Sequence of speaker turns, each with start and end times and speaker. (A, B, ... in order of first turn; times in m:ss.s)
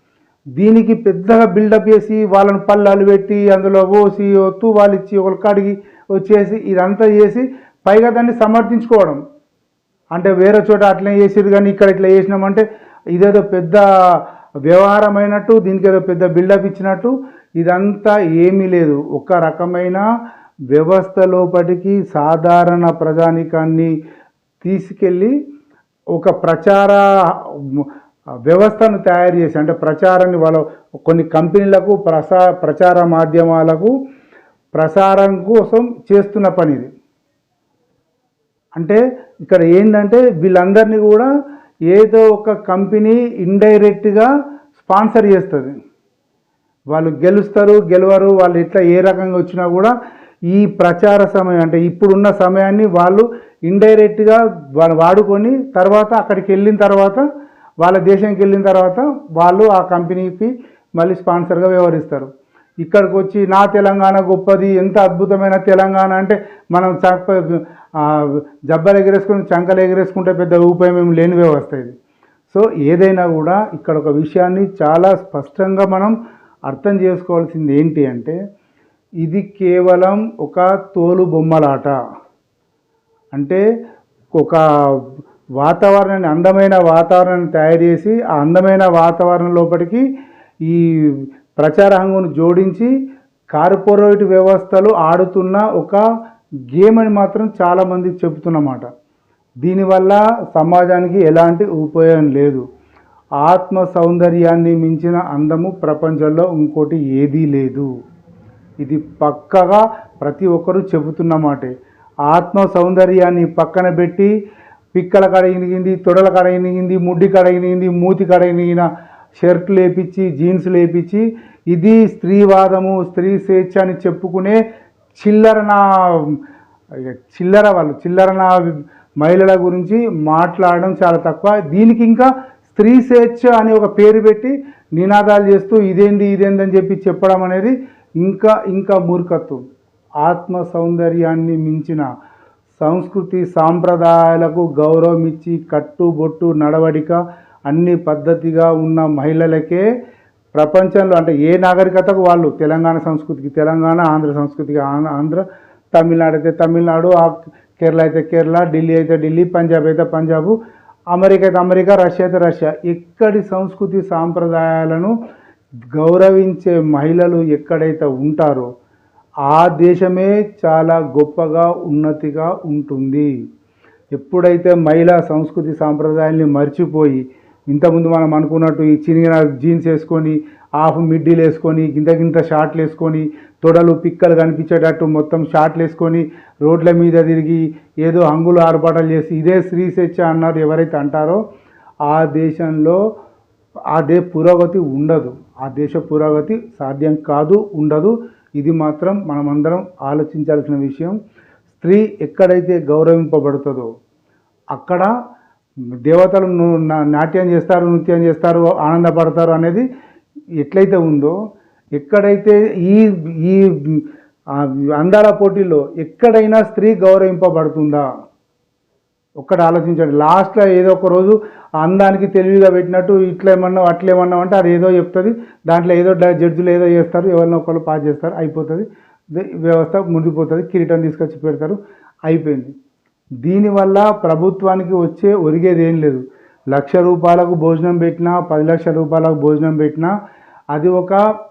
0:00.6-0:09.2 A
0:10.2-0:20.0 A
0:20.7-0:23.9 A
0:24.6-0:25.3 A
0:26.1-0:27.9 A
0:28.5-0:33.9 A
0:34.7-0:36.9 A
0:38.8-0:41.3 A
0:41.9-0:45.7 A
0:46.9-0:49.9 A
0:50.5-0:57.2 A
0:57.8-1:02.3 A
1:02.8-1:11.9 A
1:12.5-1:16.1 A
1:16.7-1:18.4 A
1:19.2-1:21.9 A
1:23.3-1:23.6 A
1:24.4-1:25.0 A
1:25.6-1:30.0 A
1:30.6-1:32.9 A
1:33.5-1:36.0 A
1:36.7-1:38.9 A
1:39.6-1:42.6 A
1:43.4-1:47.9 A
1:48.8-1:51.7 A
1:52.3-1:54.3 A
1:54.9-2:04.6 A
2:05.1-2:06.4 A
2:07.0-2:08.7 A
2:09.2-2:19.6 A
2:20.2-2:22.0 A
2:22.8-2:29.8 A
2:30.5-2:40.5 A
2:41.1-2:45.1 A
2:46.0-2:48.7 A
2:49.5-2:53.3 A
2:54.1-3:11.4 A
3:12.1-3:13.0 A
3:13.9-3:21.2 A
3:21.7-3:23.9 A
3:24.7-3:25.1 A
3:26.1-3:29.8 A
3:30.6-3:31.3 A
3:32.0-3:34.0 A
3:34.5-3:38.0 A
3:39.4-3:52.7 A
3:53.4-3:56.2 A
3:56.7-4:00.1 A
4:00.7-4:01.2 A